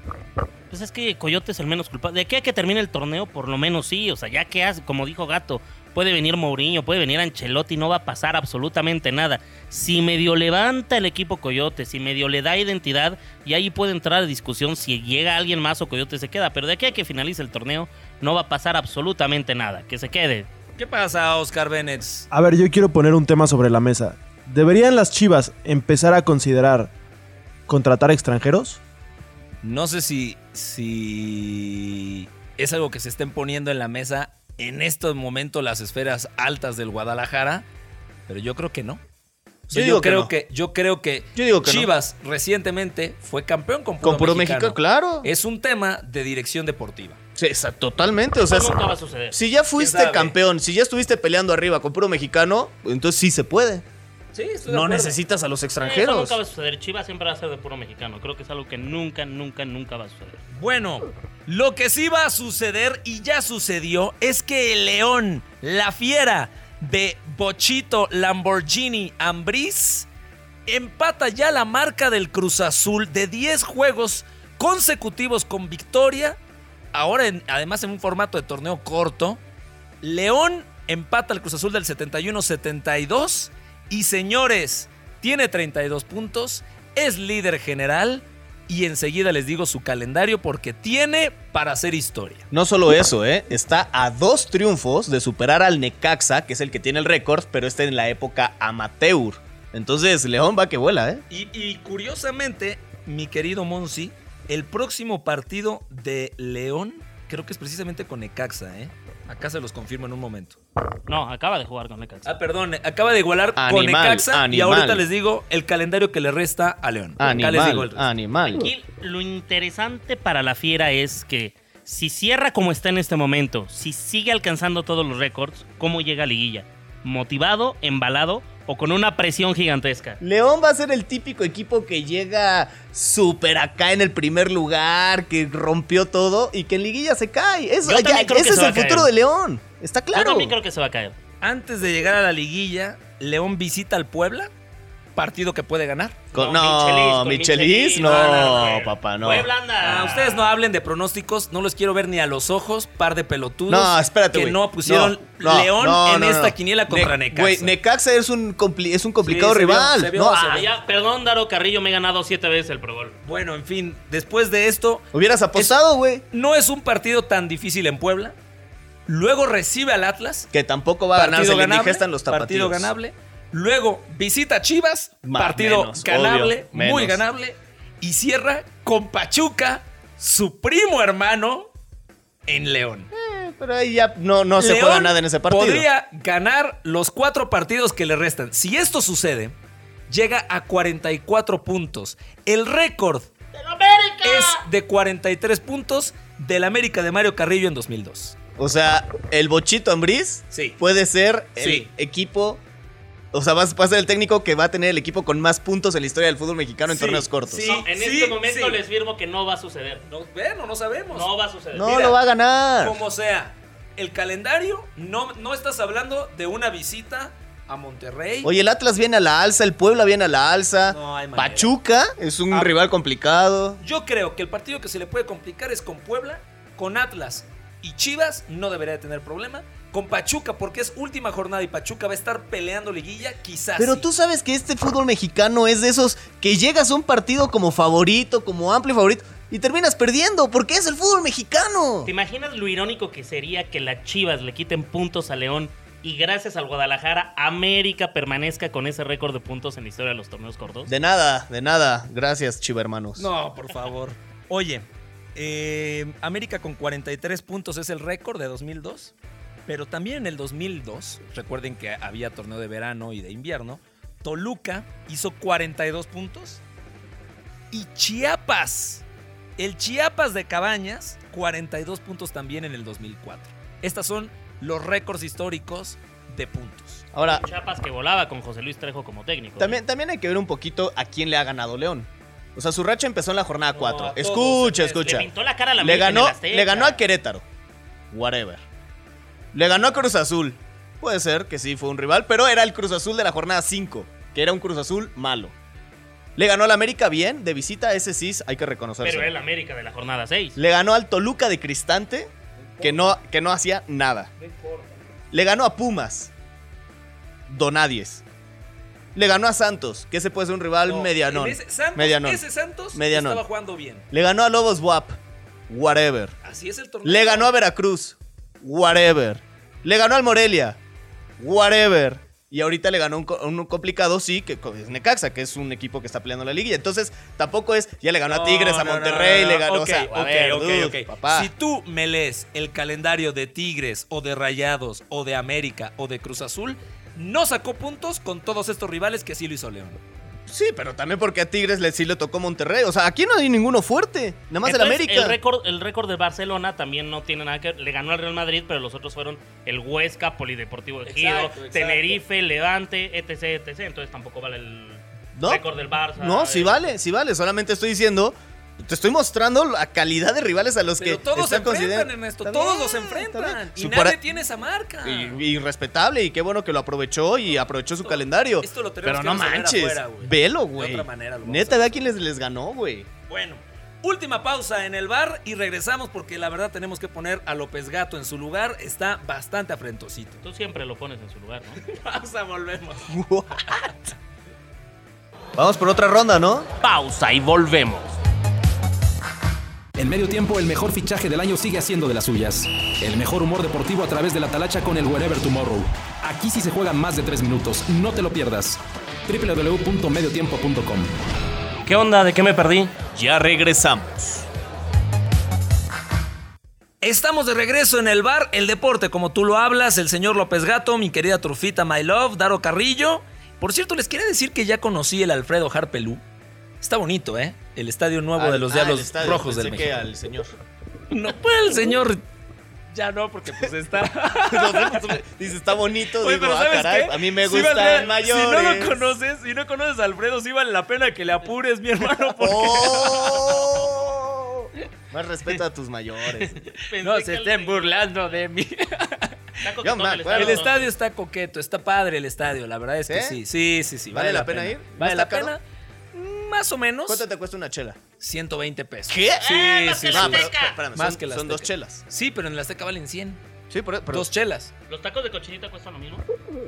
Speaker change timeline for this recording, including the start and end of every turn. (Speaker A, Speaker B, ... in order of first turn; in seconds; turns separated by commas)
Speaker A: 0.7-20.5, Speaker B: 20.8-22.3, Speaker C: 22.3-26.9, Speaker C: 27.7-28.8, Speaker B: 29.6-37.7, Speaker B: 38.3-39.0, Speaker B: 39.7-47.2, Speaker D: 39.7-40.3, Speaker D: 41.4-41.9, Speaker D: 44.0-45.3, Speaker D: 47.4-53.8, Speaker A: 48.4-49.4, Speaker B: 49.8-50.4, Speaker B: 54.3-55.2, Speaker D: 54.7-56.4, Speaker A: 55.8-60.4, Speaker B: 60.5-70.1, Speaker B: 70.7-76.4, Speaker B: 76.9-79.4, Speaker B: 80.0-92.5, Speaker D: 92.5-101.2, Speaker B: 101.3-110.6, Speaker A: 111.1-112.3, Speaker B: 112.2-118.1, Speaker D: 113.6-115.0, Speaker D: 117.2-118.7, Speaker A: 118.5-130.2, Speaker D: 130.2-140.6, Speaker A: 137.8-139.1, Speaker A: 140.1-141.2, Speaker B: 141.4-144.5, Speaker B: 145.2-146.2, Speaker D: 146.3-149.5, Speaker A: 146.3-150.5, Speaker B: 148.0-148.7, Speaker B: 149.8-157.8, Speaker D: 153.7-160.6, Speaker B: 159.2-160.7, Speaker A: 160.4-163.2, Speaker B: 163.2-165.8, Speaker D: 165.1-166.2, Speaker B: 166.3-168.4, Speaker B: 169.1-170.5, Speaker D: 170.5-172.9, Speaker B: 171.1-181.7, Speaker D: 175.2-177.2, Speaker B: 182.5-183.1, Speaker D: 183.1-185.9, Speaker B: 184.6-189.6, Speaker B: 190.1-193.3, Speaker A: 193.5-194.6, Speaker B: 194.2-198.4, Speaker D: 198.6-202.6, Speaker B: 200.5-200.8, Speaker B: 201.6-201.9, Speaker D: 203.3-207.7, Speaker B: 206.9-208.8, Speaker A: 207.6-210.1, Speaker B: 210.1-211.3, Speaker A: 211.1-212.0, Speaker D: 211.7-213.0, Speaker B: 211.8-212.2, Speaker B: 212.8-218.5, Speaker D: 218.4-223.8, Speaker B: 220.9-221.7, Speaker B: 222.5-222.8, Speaker B: 223.8-234.1, Speaker D: 233.8-242.1, Speaker A: 242.1-250.9, Speaker D: 250.9-253.3, Speaker B: 253.2-259.1, Speaker B: 259.7-266.6, Speaker B: 267.7-269.0, Speaker B: 269.6-277.1, Speaker D: 277.1-277.4, Speaker A: 277.2-279.8, Speaker D: 279.6-287.4, Speaker B: 283.7-285.2, Speaker A: 285.0-287.0, Speaker D: 288.1-288.6, Speaker D: 289.5-295.6, Speaker D: 296.4-299.3, Speaker A: 299.0-300.6, Speaker D: 300.6-304.3, Speaker B: 302.6-303.2, Speaker B: 304.4-305.1, Speaker D: 305.3-306.3, Speaker D: 307.5-308.2, Speaker D: 309.1-313.4, Speaker B: 310.9-314.1, Speaker D: 314.1-315.2, Speaker D: 315.7-316.4, Speaker B: 316.4-317.5, Speaker D: 317.0-320.8, Speaker D: 321.4-331.5, Speaker B: 328.3-340.0, Speaker D: 340.5-345.4, Speaker A: 344.6-356.8, Speaker B: 351.1-352.2, Speaker D: 355.4-364.2, Speaker B: 361.0-365.4, Speaker D: 365.0-373.1, Speaker B: 368.0-372.0, Speaker B: 373.3-380.4, Speaker A: 380.4-381.9, Speaker B: 381.8-383.2, Speaker D: 383.1-383.9, Speaker B: 383.7-383.9, Speaker D: 385.6-386.7, Speaker A: 386.8-388.2, Speaker E: 390.0-401.1, Speaker A: 401.9-403.0, Speaker D: 403.1-404.5, Speaker B: 407.0-416.2, Speaker B: 416.8-420.0, Speaker D: 418.4-420.6, Speaker B: 421.1-422.2, Speaker B: 422.9-425.2, Speaker D: 424.2-429.1, Speaker B: 426.2-433.6, Speaker D: 432.4-436.6, Speaker A: 436.4-438.1, Speaker B: 437.0-439.4, Speaker A: 439.6-440.9, Speaker D: 439.8-440.7, Speaker B: 440.3-445.6, Speaker D: 443.1-443.4, Speaker D: 444.1-445.5, Speaker B: 446.1-447.2, Speaker D: 447.1-448.0, Speaker B: 448.2-453.4, Speaker D: 449.1-452.0, Speaker A: 449.4-450.8, Speaker D: 453.7-454.3, Speaker B: 454.1-454.7, Speaker A: 454.9-456.2